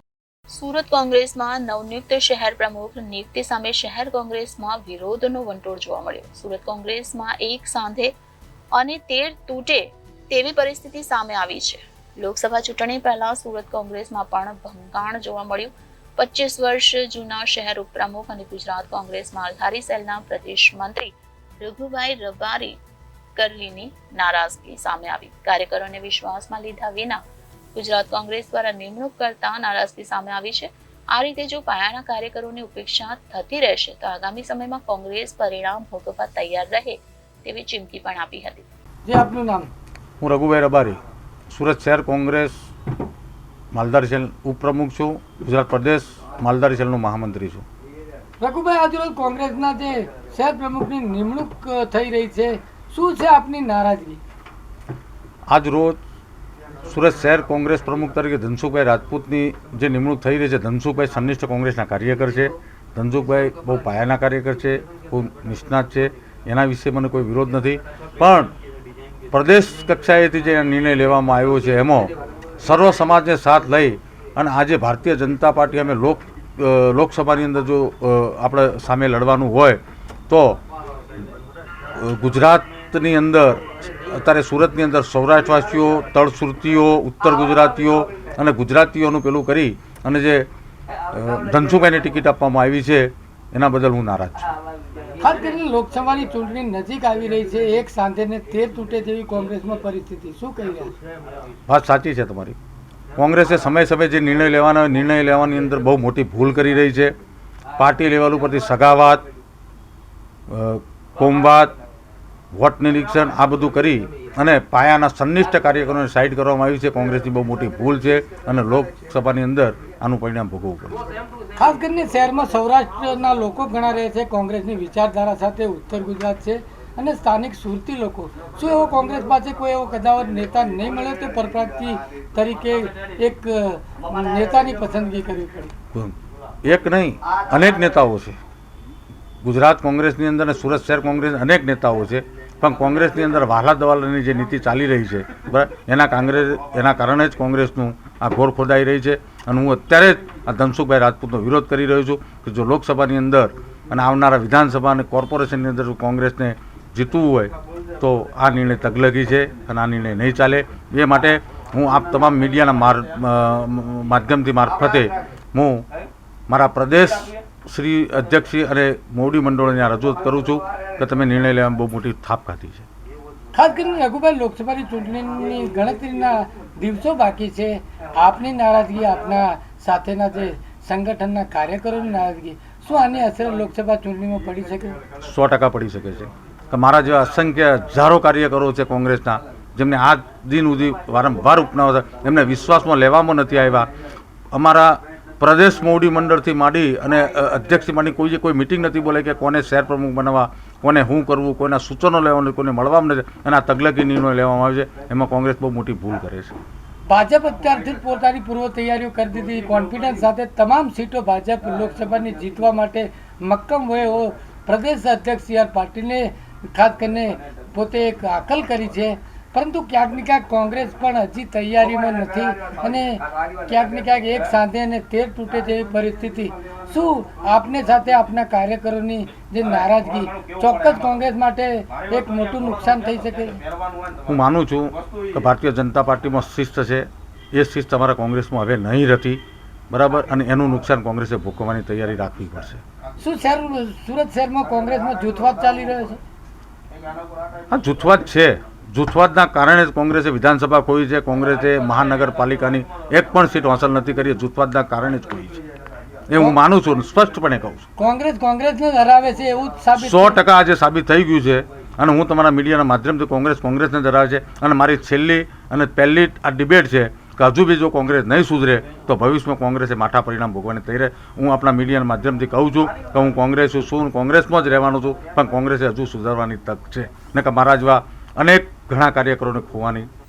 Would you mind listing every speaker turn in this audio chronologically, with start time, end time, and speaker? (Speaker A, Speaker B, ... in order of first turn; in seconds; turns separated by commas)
Speaker A: 0.5-8.1, Speaker A: 8.7-22.8, Speaker A: 23.4-27.2, Speaker A: 27.7-38.6, Speaker B: 39.0-39.7, Speaker C: 40.2-42.5, Speaker C: 43.7-47.6, Speaker B: 48.4-54.2, Speaker C: 55.5-56.0, Speaker C: 56.9-68.5, Speaker C: 69.3-80.6, Speaker C: 82.0-90.5, Speaker C: 91.1-94.5, Speaker B: 95.2-101.0, Speaker C: 101.7-102.6, Speaker C: 103.2-107.1, Speaker C: 107.8-109.2, Speaker C: 110.5-111.8, Speaker C: 112.5-121.0, Speaker B: 121.6-135.7, Speaker C: 136.7-138.4, Speaker C: 139.4-165.8, Speaker C: 166.5-172.9, Speaker B: 173.5-185.0, Speaker C: 185.2-193.9, Speaker C: 194.5-206.6, Speaker B: 207.1-233.6, Speaker C: 234.3-242.8, Speaker B: 243.2-246.2, Speaker C: 247.7-255.6, Speaker C: 256.3-257.9, Speaker B: 258.0-260.4, Speaker C: 259.9-280.1